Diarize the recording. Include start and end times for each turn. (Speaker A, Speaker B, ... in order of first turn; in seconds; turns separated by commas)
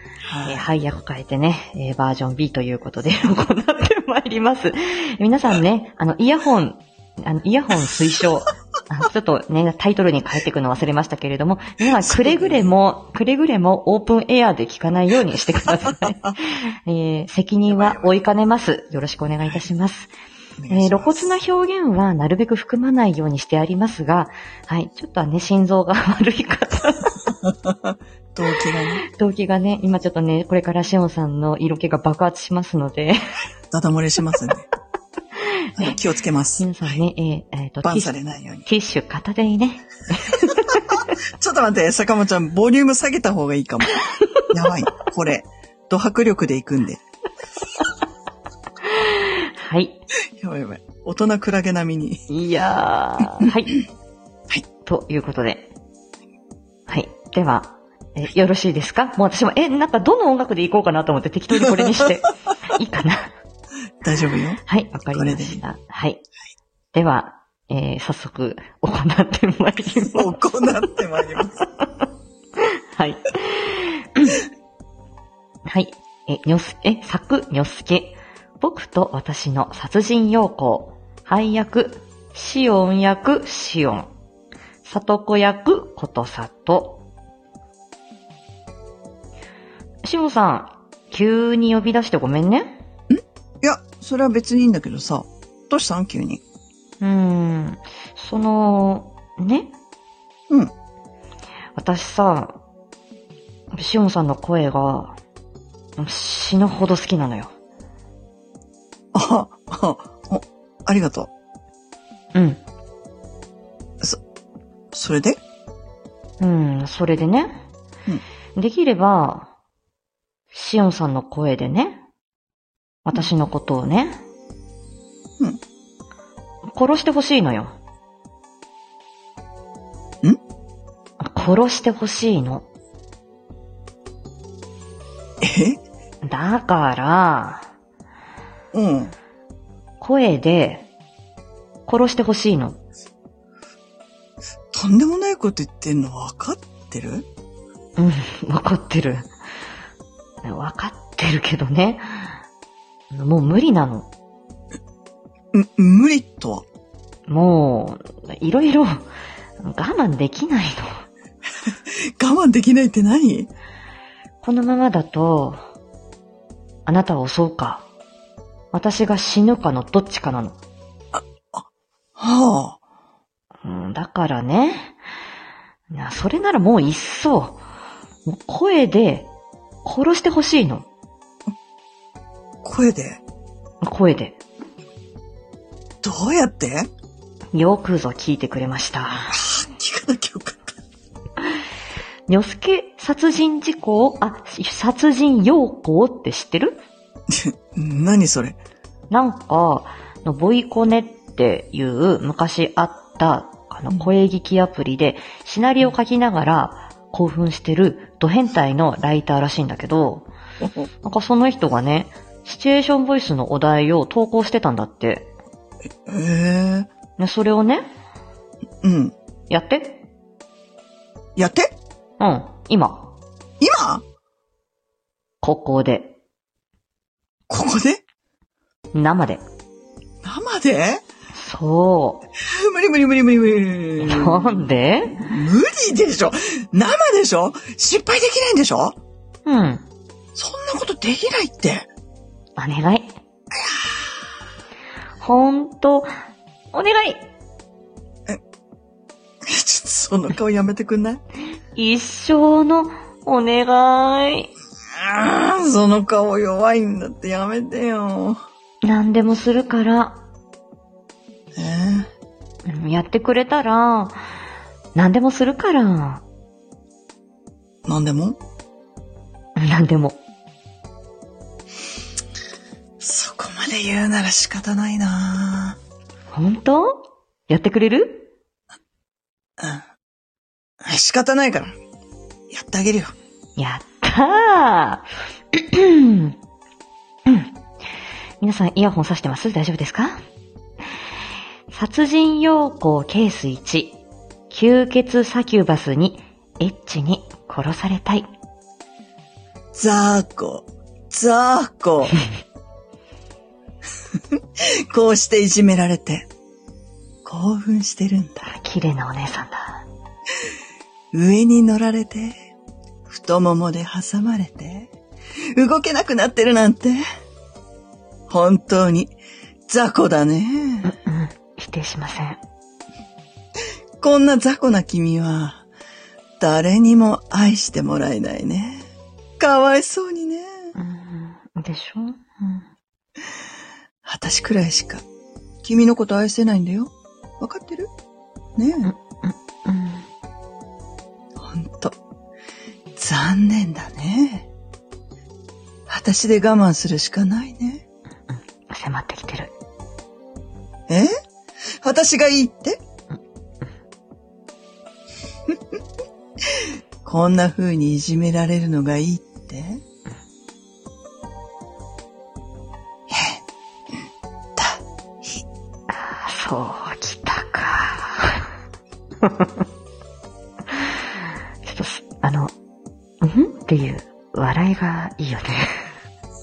Speaker A: 0.3-0.7, Speaker B: 0.4-20.1, Speaker A: 12.0-12.7, Speaker A: 17.6-18.1, Speaker A: 20.6-21.3, Speaker B: 20.7-27.1, Speaker A: 27.4-29.0, Speaker B: 29.1-33.2, Speaker A: 33.7-34.7, Speaker B: 35.4-36.0, Speaker A: 35.8-37.0, Speaker B: 36.6-38.1, Speaker A: 37.8-38.7, Speaker B: 38.6-41.1, Speaker A: 40.6-47.0, Speaker B: 44.2-44.5, Speaker B: 48.8-50.0, Speaker A: 50.4-52.2, Speaker B: 52.3-53.9, Speaker B: 54.9-55.7, Speaker B: 56.9-63.4, Speaker A: 61.6-62.1, Speaker A: 64.0-65.6, Speaker B: 64.7-66.2, Speaker B: 66.9-70.9, Speaker A: 70.0-71.6, Speaker B: 72.6-74.4, Speaker B: 75.7-84.1, Speaker B: 84.8-87.0, Speaker B: 90.0-92.8, Speaker A: 93.1-96.4, Speaker B: 97.0-99.7, Speaker B: 101.8-102.6, Speaker B: 103.7-105.2, Speaker B: 106.0-107.5, Speaker A: 109.1-111.3, Speaker B: 112.3-112.6, Speaker A: 114.9-115.4, Speaker B: 116.4-117.6, Speaker B: 118.6-119.5, Speaker B: 120.5-122.0, Speaker B: 123.0-124.2, Speaker B: 126.7-127.7, Speaker B: 131.2-132.7, Speaker A: 135.4-135.8, Speaker B: 136.2-137.7, Speaker A: 138.7-139.2, Speaker B: 140.0-140.9, Speaker B: 141.9-142.8, Speaker A: 144.7-147.3, Speaker B: 148.0-149.3, Speaker B: 150.4-152.4, Speaker B: 153.1-154.1, Speaker A: 155.5-156.7, Speaker B: 157.3-159.1, Speaker B: 159.6-161.1, Speaker A: 161.6-163.5, Speaker B: 164.4-165.6, Speaker B: 166.9-167.9, Speaker B: 168.7-170.6, Speaker A: 171.1-171.7, Speaker A: 172.2-172.8, Speaker B: 173.6-175.0, Speaker B: 175.9-177.6, Speaker B: 178.3-179.3, Speaker B: 179.8-180.9, Speaker A: 182.6-183.2, Speaker B: 183.8-184.4, Speaker A: 186.0-186.9, Speaker B: 187.5-189.4, Speaker A: 189.3-190.8, Speaker B: 192.3-196.8, Speaker A: 197.3-198.6, Speaker B: 199.1-210.3, Speaker A: 210.6-210.9, Speaker B: 211.1-215.3, Speaker A: 216.1-216.9, Speaker B: 217.2-217.9, Speaker A: 218.8-219.2, Speaker B: 219.5-220.0, Speaker A: 221.4-221.8, Speaker B: 222.2-223.1, Speaker A: 223.6-224.0, Speaker B: 225.4-226.2, Speaker A: 227.5-228.0, Speaker B: 228.9-229.4, Speaker A: 230.2-231.0, Speaker B: 231.3-232.2, Speaker A: 232.4-239.0, Speaker B: 234.0-235.2, Speaker B: 239.5-239.8, Speaker A: 240.3-241.9, Speaker B: 242.6-243.2, Speaker A: 243.6-244.0, Speaker B: 245.2-246.1, Speaker B: 246.7-247.2, Speaker A: 249.4-251.2, Speaker B: 251.8-254.5, Speaker A: 255.0-258.4, Speaker B: 258.8-260.2, Speaker A: 261.6-262.1, Speaker B: 262.7-264.2, Speaker B: 264.9-266.2, Speaker A: 267.9-268.4, Speaker B: 269.6-270.2, Speaker A: 273.0-275.8, Speaker B: 276.3-278.3, Speaker A: 279.6-279.9, Speaker A: 280.8-281.7, Speaker A: 282.5-283.1, Speaker B: 283.6-286.4, Speaker B: 287.3-287.5, Speaker B: 288.4-290.2, Speaker B: 291.7-294.0, Speaker B: 294.5-298.3, Speaker A: 299.7-302.2, Speaker A: 304.2-306.3, Speaker A: 307.2-308.5, Speaker B: 308.4-309.8, Speaker A: 311.1-312.4, Speaker A: 313.1-314.9, Speaker A: 315.6-317.0, Speaker A: 318.3-319.1, Speaker A: 319.7-320.9, Speaker B: 320.9-322.4, Speaker A: 324.0-325.6, Speaker A: 326.4-328.9, Speaker A: 329.4-330.7, Speaker B: 330.8-332.7, Speaker A: 334.1-335.0, Speaker A: 335.6-337.9, Speaker A: 338.6-338.9, Speaker B: 338.8-340.1, Speaker A: 341.4-342.0, Speaker A: 343.0-344.5, Speaker A: 345.9-347.8, Speaker B: 348.3-349.5, Speaker A: 351.8-352.8, Speaker A: 356.5-359.8, Speaker A: 363.1-363.4, Speaker A: 364.6-364.8, Speaker B: 365.9-368.4, Speaker B: 369.2-369.6, Speaker B: 371.6-372.5, Speaker B: 373.2-375.8